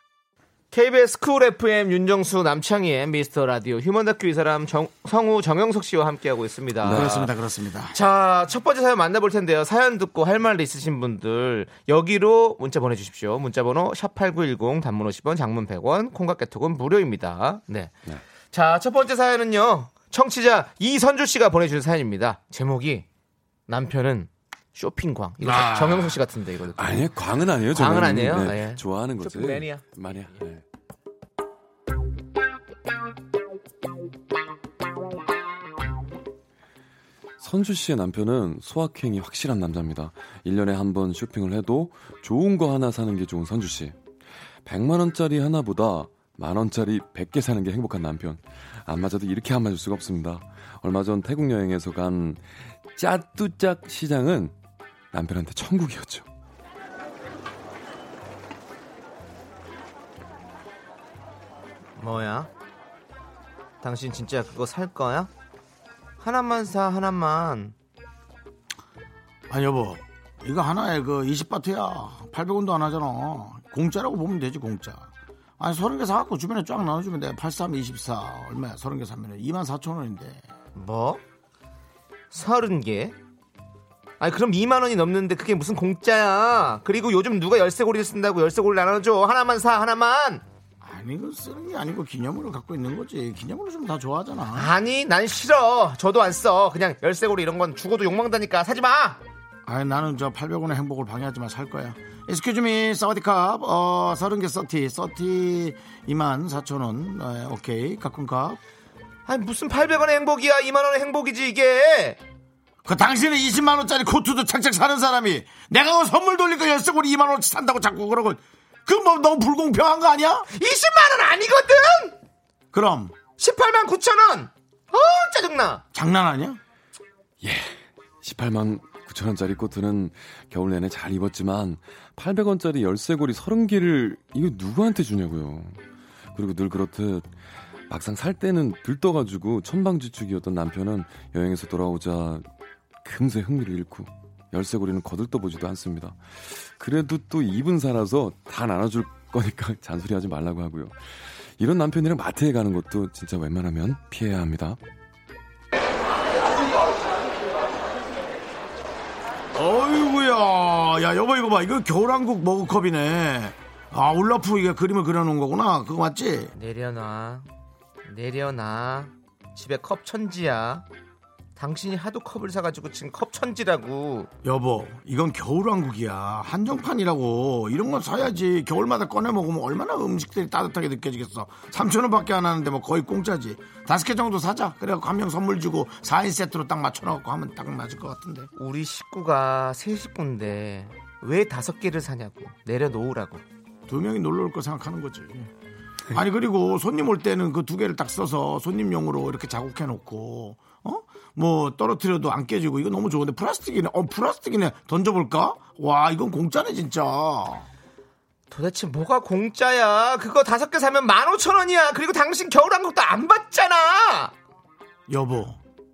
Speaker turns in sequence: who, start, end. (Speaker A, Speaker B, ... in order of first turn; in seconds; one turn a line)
Speaker A: 0.7-7.3
Speaker B: 6.8-7.3
Speaker C: 6.8-8.0
Speaker A: 7.9-17.9
Speaker A: 18.5-23.1
Speaker A: 23.7-27.1
Speaker B: 25.5-26.1
Speaker B: 26.8-30.6
Speaker A: 27.7-30.4
Speaker B: 37.4-44.0
Speaker B: 44.6-54.5
Speaker B: 55.1-56.3
Speaker A: 62.0-62.5
Speaker A: 63.8-65.3
Speaker A: 66.2-67.8
Speaker C: 69.5-80.4
Speaker A: 80.8-81.2
Speaker A: 82.3-83.2
Speaker A: 84.2-90.4
Speaker C: 90.8-94.7
Speaker A: 94.5-99.2
Speaker C: 99.7-108.6
Speaker A: 109.3-112.2
Speaker C: 112.8-120.5
Speaker A: 120.5-122.2
Speaker C: 122.7-123.1
Speaker A: 123.4-125.8
Speaker C: 125.9-126.6
Speaker B: 127.4-135.8
Speaker B: 136.3-137.3
Speaker B: 137.9-142.4
Speaker B: 143.0-151.0
Speaker B: 151.6-154.8
Speaker C: 159.5-166.5
Speaker A: 166.6-167.5
Speaker A: 168.1-170.8
Speaker A: 171.6-174.3
Speaker C: 174.4-188.5
Speaker A: 188.6-193.4
Speaker C: 193.9-195.5
Speaker C: 196.1-207.7
Speaker A: 208.5-214.3
Speaker C: 215.1-215.6